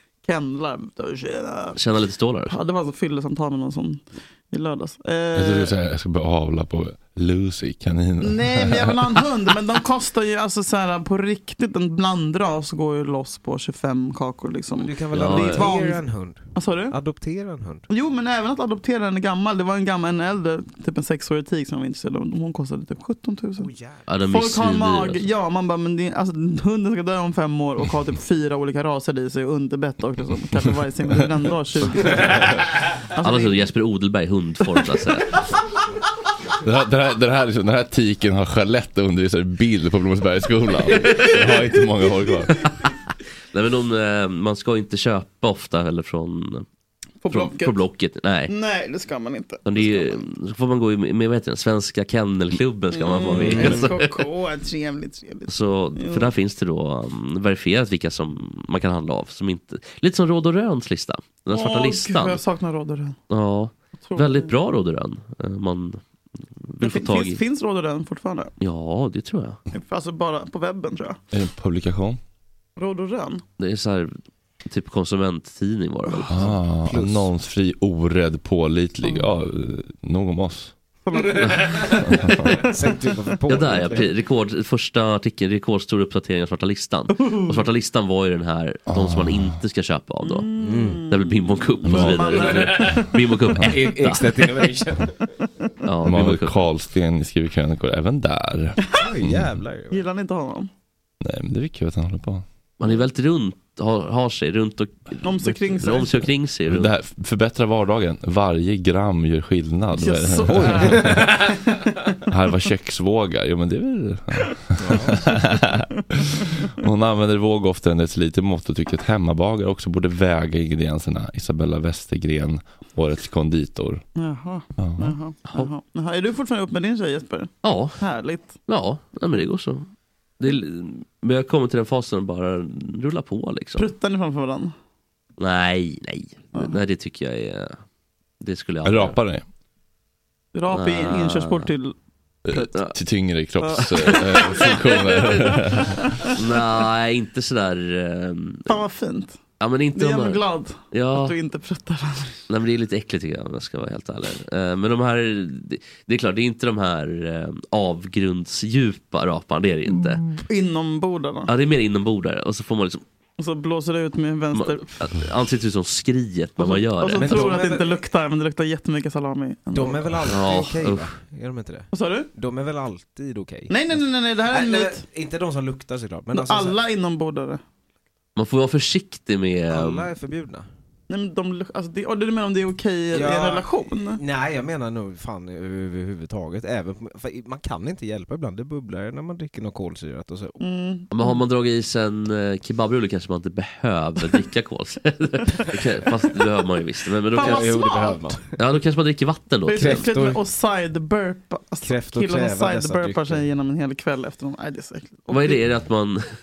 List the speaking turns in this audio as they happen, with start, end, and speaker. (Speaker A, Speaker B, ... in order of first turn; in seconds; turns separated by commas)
Speaker A: 0.2-1.8, Speaker B: 1.8-2.6, Speaker A: 2.5-5.7, Speaker C: 5.3-9.2, Speaker A: 8.2-16.0, Speaker D: 14.8-17.9, Speaker B: 15.1-15.7, Speaker A: 16.5-16.9, Speaker A: 17.9-23.7, Speaker D: 23.6-24.1, Speaker B: 24.1-25.3, Speaker A: 24.3-32.6, Speaker A: 33.1-33.6, Speaker B: 33.2-35.3, Speaker C: 36.6-42.6, Speaker B: 43.5-46.6, Speaker A: 47.2-47.8, Speaker B: 47.3-48.5, Speaker A: 48.5-50.1, Speaker B: 49.7-54.1, Speaker A: 52.9-56.3, Speaker B: 55.5-62.4, Speaker A: 61.5-63.1, Speaker B: 63.3-66.0, Speaker A: 64.0-64.5, Speaker B: 66.7-67.4, Speaker A: 66.8-68.5, Speaker B: 68.6-69.6, Speaker A: 69.7-71.2, Speaker C: 71.3-72.2, Speaker A: 72.8-73.4, Speaker B: 73.6-74.1, Speaker B: 74.6-76.4, Speaker C: 76.3-80.7, Speaker D: 76.4-77.3, Speaker A: 81.1-82.5, Speaker B: 81.4-81.9, Speaker C: 82.0-82.5, Speaker D: 82.5-84.1, Speaker B: 83.5-90.5, Speaker A: 87.1-87.6, Speaker C: 88.9-89.6, Speaker A: 90.2-93.1, Speaker D: 90.6-91.0, Speaker B: 91.1-94.7, Speaker C: 91.9-92.9, Speaker D: 92.5-92.9, Speaker D: 93.6-95.2, Speaker B: 95.8-96.6, Speaker C: 96.0-99.5, Speaker D: 99.0-100.1, Speaker A: 99.9-100.7, Speaker C: 101.2-102.4, Speaker B: 102.8-106.9, Speaker A: 105.2-106.2, Speaker C: 106.7-111.6, Speaker A: 110.0-111.3, Speaker D: 110.5-111.4, Speaker C: 112.3-124.0, Speaker D: 114.8-115.3, Speaker A: 124.2-128.6, Speaker C: 124.8-125.2, Speaker B: 127.6-128.0, Speaker B: 128.7-129.9, Speaker B: 130.4-133.9, Speaker A: 133.8-134.7, Speaker B: 135.4-137.8, Speaker B: 138.4-139.2, Speaker C: 138.8-139.4, Speaker A: 140.5-141.9, Speaker B: 140.7-141.7, Speaker C: 142.5-146.0, Speaker B: 142.5-142.9, Speaker A: 143.6-146.4, Speaker B: 146.3-148.8, Speaker A: 148.7-149.4, Speaker B: 149.6-151.3, Speaker A: 149.9-152.4, Speaker B: 152.5-160.3, Speaker A: 160.1-161.5, Speaker B: 161.5-163.0, Speaker A: 163.4-165.0, Speaker B: 164.5-167.6, Speaker A: 166.6-170.1, Speaker D: 167.1-168.0, Speaker D: 169.7-176.8, Speaker B: 170.2-171.1, Speaker A: 171.9-172.3, Speaker A: 173.7-175.0, Speaker A: 176.3-177.6, Speaker B: 178.3-180.1, Speaker D: 179.7-180.7, Speaker A: 181.1-184.2, Speaker D: 183.1-190.6, Speaker A: 190.6-191.4, Speaker B: 191.1-197.8, Speaker A: 197.3-198.2, Speaker D: 197.3-198.5, Speaker B: 198.6-200.1, Speaker A: 199.7-205.6, Speaker D: 199.8-200.4, Speaker D: 201.8-203.4, Speaker B: 205.3-206.2